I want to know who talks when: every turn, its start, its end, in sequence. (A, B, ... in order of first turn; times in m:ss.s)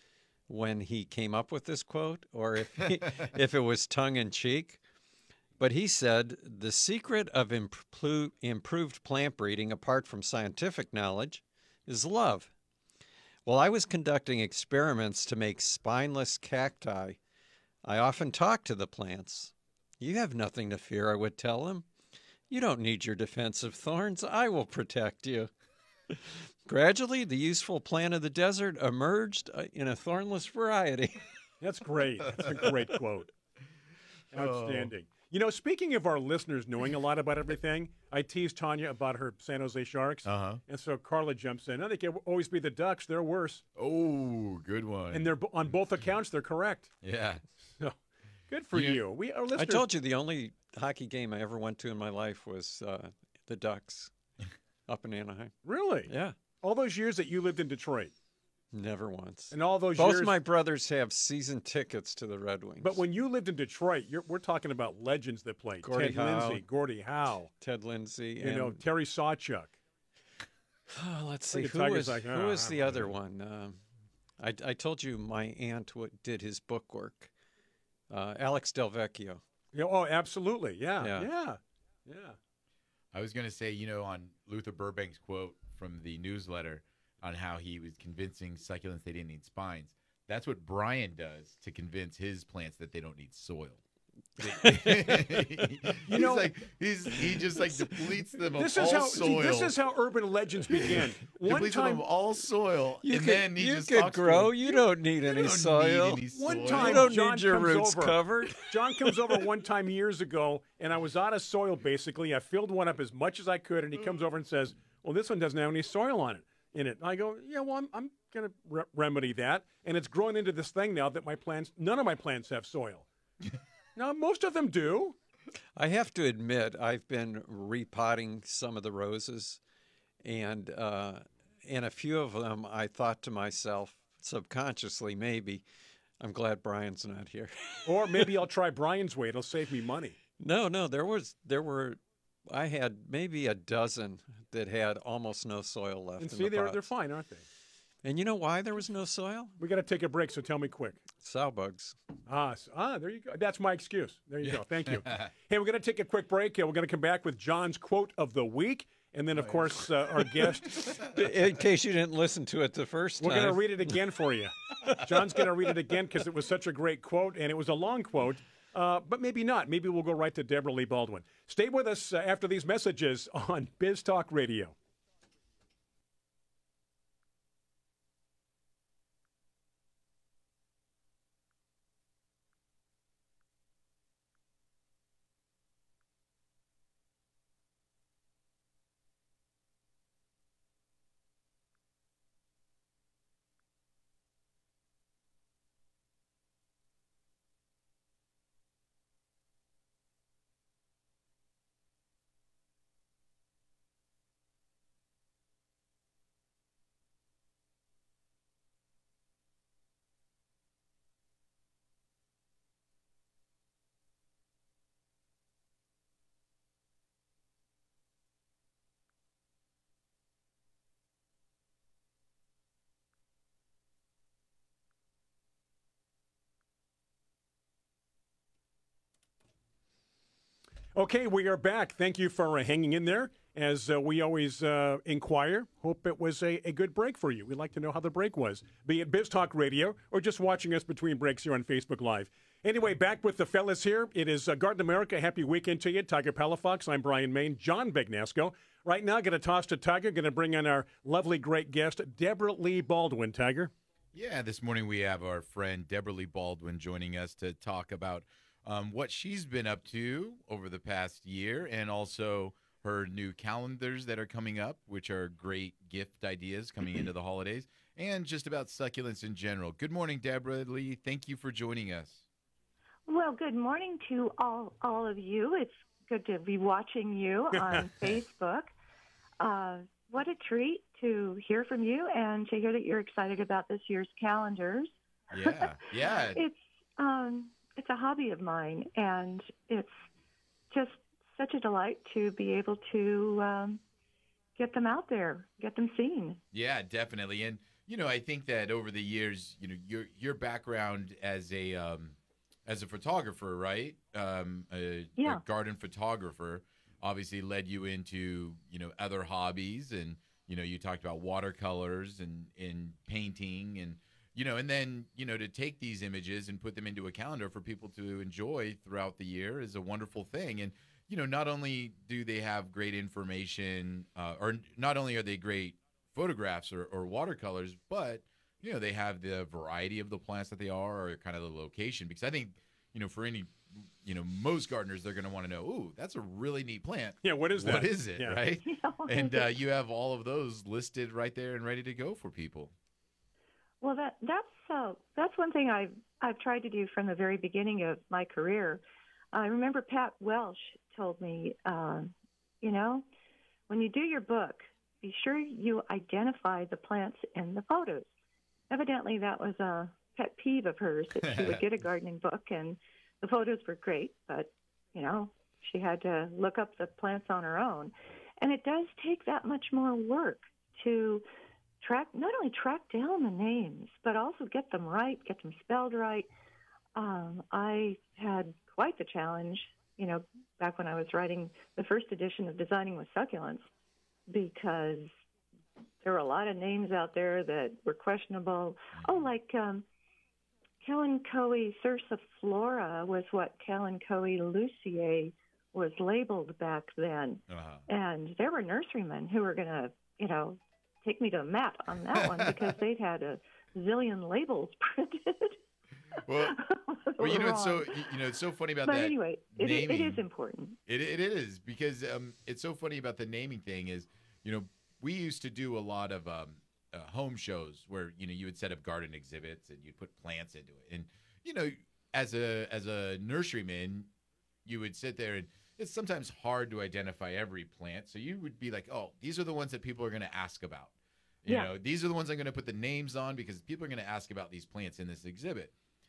0:00.5-0:04.8 A
0:05.6-0:12.5 A
0:13.5-0:17.2 A
0:17.8-0:21.9 A
0:22.5-0:25.5 A
0:26.1-0:31.3 A
0:31.6-0:33.3 B
0:34.3-0:34.9 C
0:34.3-0:43.6 B
0:40.2-0:40.6 C
0:43.8-0:45.4 C
0:45.1-0:46.9 B
0:47.0-0:47.4 C
0:48.5-0:49.8 B
0:48.7-0:49.0 C
0:49.6-0:54.1 A
0:54.9-0:55.6 A
0:55.6-0:56.1 B
0:56.1-0:56.4 A
0:56.6-0:58.1 B
0:58.7-1:03.0 A
0:59.5-1:00.3 B
1:02.8-1:07.5 B
1:05.8-1:06.6 A
1:07.6-1:08.8 A
1:08.4-1:09.8 B
1:10.9-1:13.8 A
1:11.5-1:12.8 B
1:14.4-1:17.3 A
1:18.1-1:19.4 A
1:19.7-1:22.4 B
1:21.0-1:21.3 A
1:23.1-1:33.8 C
1:34.4-1:39.8 C
1:34.4-1:35.7 A
1:36.0-1:36.5 B
1:37.1-1:38.1 A
1:38.5-1:42.0 B
1:40.7-1:47.1 C
1:43.0-1:49.4 A
1:46.3-2:03.1 B
2:04.0-2:05.2 B
2:05.8-2:09.6 A
2:10.2-2:15.6 A
2:16.2-2:18.3 A
2:17.9-2:20.2 B
2:20.4-2:26.9 A
2:26.2-2:27.4 B
2:28.0-2:29.6 A
2:29.6-2:31.0 B
2:31.2-2:32.0 A
2:32.3-2:41.0 B
2:39.4-2:39.7 C
2:40.5-2:43.9 A
2:43.2-2:54.8 B
3:51.0-4:13.7 B
4:14.1-4:32.2 C
4:33.1-4:38.7 D
4:39.4-4:44.9 D
4:45.3-4:46.4 C
4:45.5-4:50.0 D
4:50.7-4:53.8 D
4:54.6-4:56.4 D
4:56.5-5:42.7 C
5:05.2-5:05.4 D
5:37.2-5:38.4 B
5:38.6-5:39.5 D
5:43.8-5:48.8 D
5:49.3-5:53.0 D
5:53.7-5:58.1 D
5:58.7-6:11.2 D
6:11.8-6:16.3 D
6:17.0-6:23.7 D
6:24.3-6:25.2 D
6:26.0-6:29.9 D
6:29.0-6:29.2 C
6:30.8-6:45.6 D
6:37.5-6:37.9 C
6:42.2-6:42.7 C
6:46.2-6:46.6 C
6:46.4-6:48.0 D
6:47.2-6:50.2 C
6:48.8-6:50.8 D
6:50.9-7:04.1 C
7:04.6-7:10.9 C
7:11.4-7:15.7 C